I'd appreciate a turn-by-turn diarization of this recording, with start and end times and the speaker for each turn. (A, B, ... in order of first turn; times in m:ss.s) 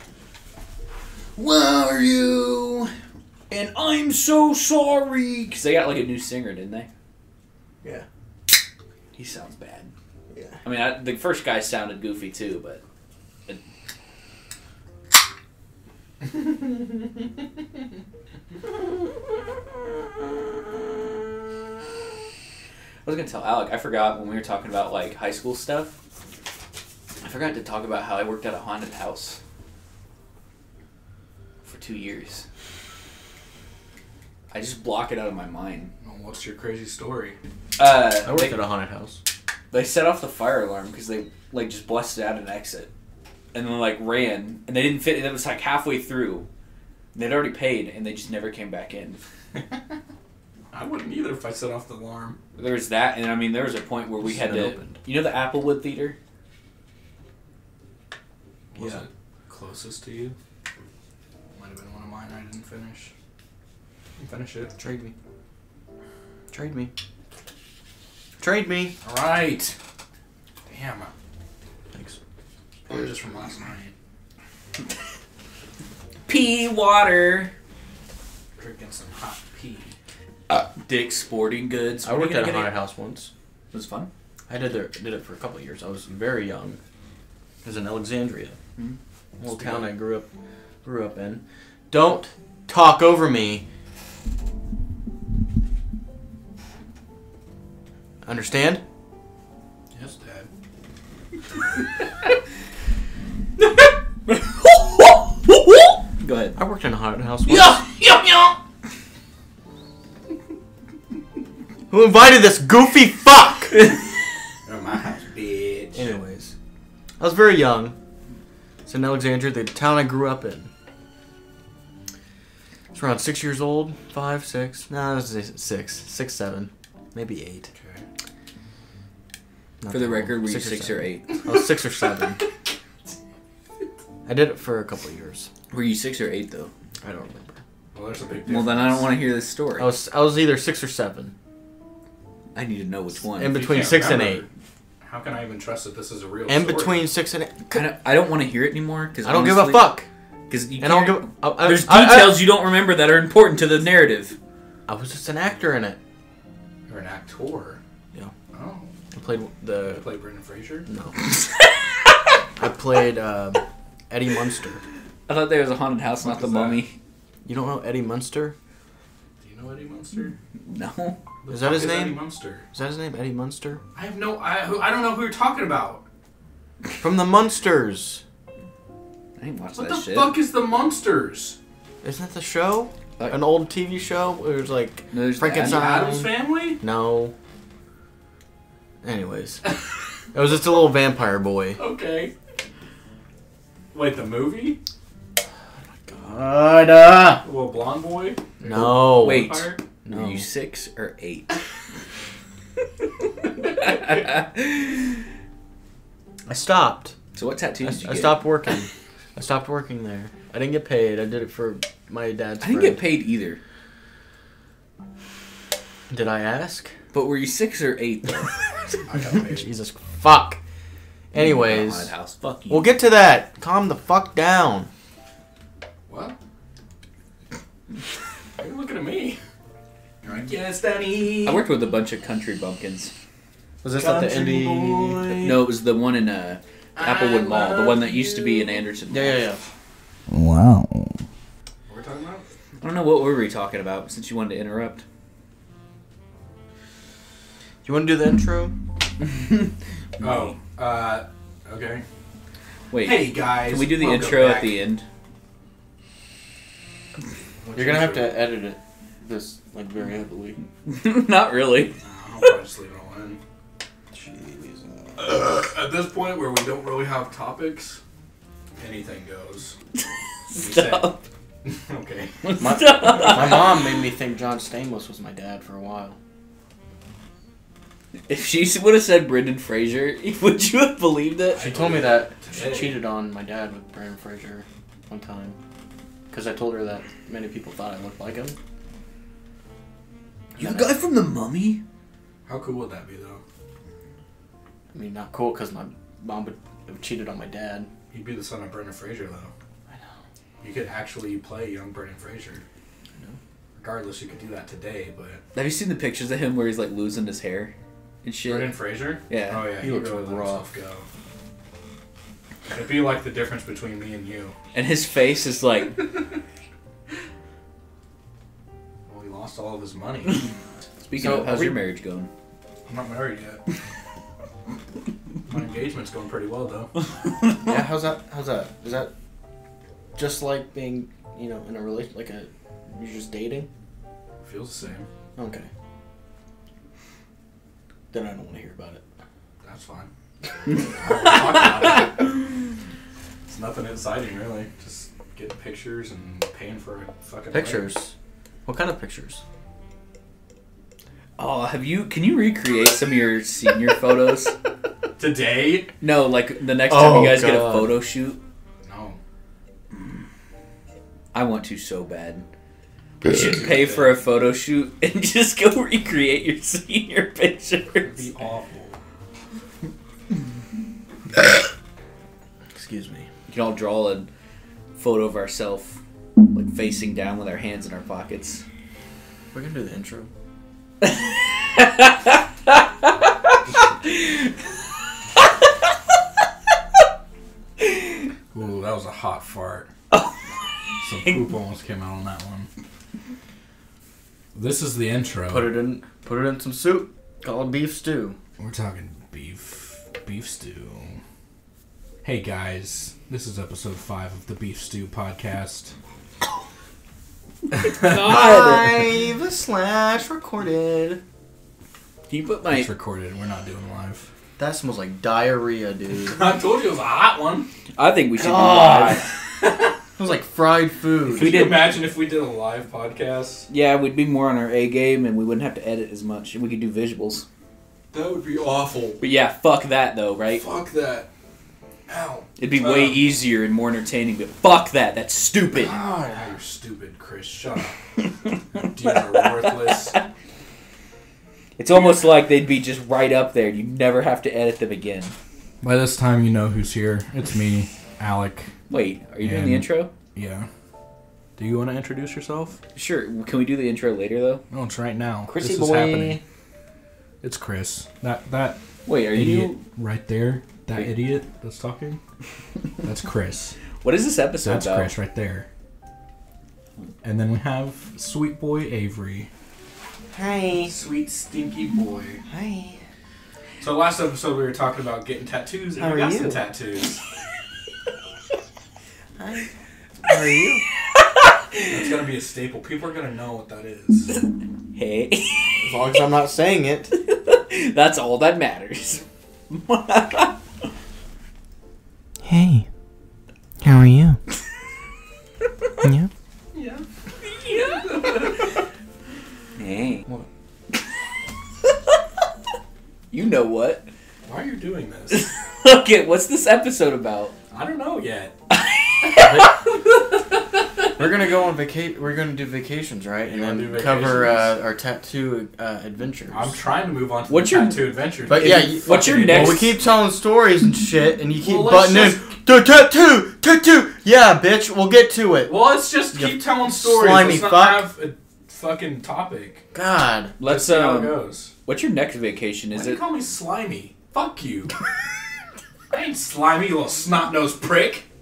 0:01.4-0:02.9 A
0:03.5-0:06.9 A
0:09.1-0:09.9 A
0:10.3-0:10.6 B
0:10.6-0:12.8 A
0:23.0-0:25.9 A
0:27.2-0:29.4 A
0:31.6-0:32.4 A
0:34.5-0:35.9 A
0:36.0-0:37.4 C
0:37.8-0:38.6 A
0:38.2-0:39.2 B
0:39.7-0:42.9 A
0:43.5-0:46.5 A
0:47.1-0:49.2 A
0:50.7-0:52.4 C
0:52.6-0:56.2 A
0:54.2-0:55.0 B
0:58.7-1:00.3 C
0:58.8-0:59.0 B
1:01.6-1:03.1 C
1:04.2-1:04.8 C
1:04.8-1:05.1 B
1:06.5-1:06.9 B
1:08.4-1:08.9 B
1:09.0-1:09.8 C
1:10.7-1:11.1 C
1:11.9-1:12.2 B
1:12.9-1:13.9 C
1:16.3-1:17.5 A
1:18.6-1:19.9 C
1:20.6-1:22.8 A
1:22.0-1:23.3 B
1:23.7-1:24.1 A
1:24.5-1:26.8 B
1:27.6-1:28.6 B
1:29.4-1:30.3 B
1:30.8-1:33.6 B
1:38.2-1:38.8 B
1:39.9-1:40.5 C
1:44.2-1:46.6 A
1:46.6-1:47.8 B
1:47.5-1:48.6 A
1:51.9-1:53.8 B
1:54.6-1:56.1 C
1:55.9-1:56.5 B
1:57.2-1:58.0 B
1:58.8-2:00.7 B
2:02.9-2:07.7 B
2:07.7-2:08.0 C
2:09.8-2:12.4 B
2:09.9-2:11.4 A
2:14.2-2:15.5 B
2:15.7-2:16.7 A
2:17.0-2:17.6 B
2:17.9-2:19.1 C
2:18.4-2:19.9 A
2:19.8-2:21.3 B
2:22.5-2:23.6 A
2:23.3-2:24.4 B
2:23.5-2:24.5 C
2:25.0-2:27.1 C
2:26.5-2:27.9 B
2:27.7-2:30.0 A
2:29.2-2:30.1 B
2:30.5-2:34.4 A
2:30.8-2:32.5 B
2:34.9-2:36.0 B
2:36.9-2:37.8 C
2:38.5-2:38.9 C
2:39.1-2:40.1 B
2:39.8-2:40.9 C
2:40.9-2:41.2 B
2:42.6-2:44.8 B
2:45.3-2:46.9 A
2:46.2-2:46.9 C
2:47.4-2:48.6 B
2:49.4-2:50.3 C
2:50.6-2:51.2 A
2:51.4-2:52.6 C
2:51.5-2:53.8 B
2:53.9-2:56.0 C
2:57.0-2:58.2 B
2:59.4-3:00.3 A
2:59.8-3:01.6 C
3:02.0-3:07.3 B
3:05.1-3:05.8 A
3:05.6-3:06.8 C
3:09.0-3:09.6 B
3:10.3-3:11.8 B
3:11.8-3:12.3 C
3:13.9-3:14.8 C
3:16.0-3:17.4 B
3:17.4-3:19.8 C
3:18.6-3:20.4 B
3:18.7-3:21.5 A
3:23.6-3:25.2 A
3:26.4-3:27.2 B
3:27.3-3:28.5 A
3:27.8-3:33.0 B
3:32.6-3:33.6 A
3:36.1-3:36.9 B
3:37.1-3:38.6 A
3:39.1-3:39.7 C
3:39.3-3:40.6 B
3:41.3-3:42.1 B
3:41.3-3:43.0 A
3:42.7-3:44.9 B
3:46.1-3:46.4 C
3:48.6-3:49.4 C
3:50.2-3:51.7 C
3:51.4-3:53.1 A
3:53.8-3:55.6 B
3:53.9-3:55.5 C
3:55.4-3:59.4 A
3:57.0-3:58.8 C
3:59.1-3:59.6 B
4:00.3-4:01.2 C
4:01.9-4:02.4 C
4:02.8-4:05.0 A
4:07.8-4:08.8 B
4:10.2-4:12.0 C
4:10.2-4:10.5 A
4:12.9-4:15.0 A
4:13.0-4:14.8 C
4:17.6-4:18.4 C
4:17.7-4:20.6 B
4:20.8-4:22.0 A
4:22.0-4:23.4 C
4:24.1-4:25.4 B
4:25.2-4:28.0 C
4:28.8-4:29.8 C
4:30.5-4:31.2 A
4:30.5-4:31.1 C
4:31.6-4:32.5 C
4:32.4-4:33.8 A
4:32.6-4:36.2 B
4:33.1-4:33.4 C
4:38.3-4:41.7 A
4:41.5-4:43.0 C
4:41.6-4:45.6 B
4:46.3-4:48.6 B
4:50.5-4:50.9 B
4:50.6-4:51.8 A
4:52.5-4:53.4 C
4:54.9-4:57.9 B
4:58.1-4:59.5 C
5:00.6-5:02.6 C
5:03.8-5:05.4 C
5:05.5-5:07.7 A
5:08.2-5:08.7 A
5:08.4-5:11.0 C
5:09.3-5:09.7 A
5:09.8-5:10.7 B
5:12.7-5:14.6 C
5:14.7-5:16.1 A
5:19.1-5:20.5 C
5:21.0-5:22.3 A
5:21.2-5:21.8 B
5:22.9-5:23.6 C
5:25.5-5:26.9 C
5:27.4-5:27.7 A
5:27.6-5:29.1 B
5:30.1-5:33.7 B
5:34.4-5:35.1 C
5:35.4-5:35.7 B
5:38.1-5:39.0 B
5:39.6-5:40.1 C
5:40.8-5:42.3 C
5:43.5-5:47.9 C
5:47.5-5:48.1 B
5:48.6-5:49.4 B
5:51.4-5:54.5 A
5:55.2-5:55.9 C
5:56.0-5:58.4 A
5:56.9-5:58.0 B
5:58.8-5:59.2 C
6:01.3-6:02.4 A
6:03.2-6:08.2 A
6:03.4-6:04.2 C
6:08.0-6:09.0 C
6:12.7-6:13.3 B
6:13.5-6:14.3 A
6:14.9-6:16.0 A
6:16.5-6:18.6 A
6:19.5-6:20.3 B
6:21.7-6:23.1 A
6:24.0-6:24.5 A
6:28.5-6:29.9 C
6:31.0-6:32.7 C
6:34.5-6:35.7 C
6:35.5-6:38.4 B
6:38.6-6:41.2 C
6:42.2-6:45.9 C
6:47.8-6:49.0 A
6:48.0-6:51.2 B
6:52.3-6:52.9 A
6:52.7-6:54.3 C
6:54.6-6:56.4 B
6:56.1-6:57.7 C
6:58.0-6:59.3 A
6:58.4-6:59.3 B
7:00.2-7:01.6 B
7:01.3-7:03.7 C
7:01.3-7:01.9 A
7:03.7-7:07.4 A
7:08.1-7:09.2 C
7:09.2-7:10.6 A
7:10.5-7:11.3 C
7:12.1-7:13.2 C
7:12.6-7:16.0 A
7:15.8-7:18.0 C
7:18.7-7:20.2 C
7:19.3-7:20.2 A
7:21.8-7:25.3 A
7:21.9-7:22.2 C
7:25.8-7:28.7 C
7:28.9-7:30.1 A
7:29.4-7:30.7 C
7:31.6-7:32.8 C
7:32.9-7:34.6 A
7:34.7-7:36.4 C
7:35.5-7:36.4 B
7:37.4-7:42.2 C
7:39.0-7:39.8 A
7:43.0-7:43.8 C
7:44.0-7:45.1 A
7:44.6-7:45.7 C
7:47.2-7:49.5 C
7:50.3-7:50.9 B
7:50.8-7:52.4 C
7:52.5-7:53.0 B
7:53.8-7:57.2 C
7:56.0-7:56.6 B
7:59.4-7:59.7 B
8:00.2-8:00.8 B
8:01.1-8:02.0 A
8:01.8-8:04.3 C
8:04.9-8:06.0 A
8:05.8-8:07.1 B
8:07.1-8:10.6 A
8:12.4-8:12.9 B
8:13.8-8:14.4 B
8:16.0-8:16.3 B
8:16.7-8:18.8 C
8:17.4-8:18.4 A
8:19.8-8:20.3 A
8:23.3-8:24.1 A
8:24.4-8:25.5 C
8:25.3-8:27.5 A
8:27.7-8:28.5 C
8:28.7-8:30.4 A
8:29.3-8:29.7 B
8:31.2-8:36.8 B
8:33.4-8:34.7 C
8:36.5-8:40.0 C
8:37.5-8:39.9 A
8:38.4-8:45.8 B
8:41.6-8:42.5 C
8:45.7-8:49.8 C
8:46.3-8:48.1 B
8:49.9-8:50.6 B
8:50.6-8:53.2 A
8:50.6-8:51.7 C
8:52.9-8:54.9 C
8:56.1-8:58.2 C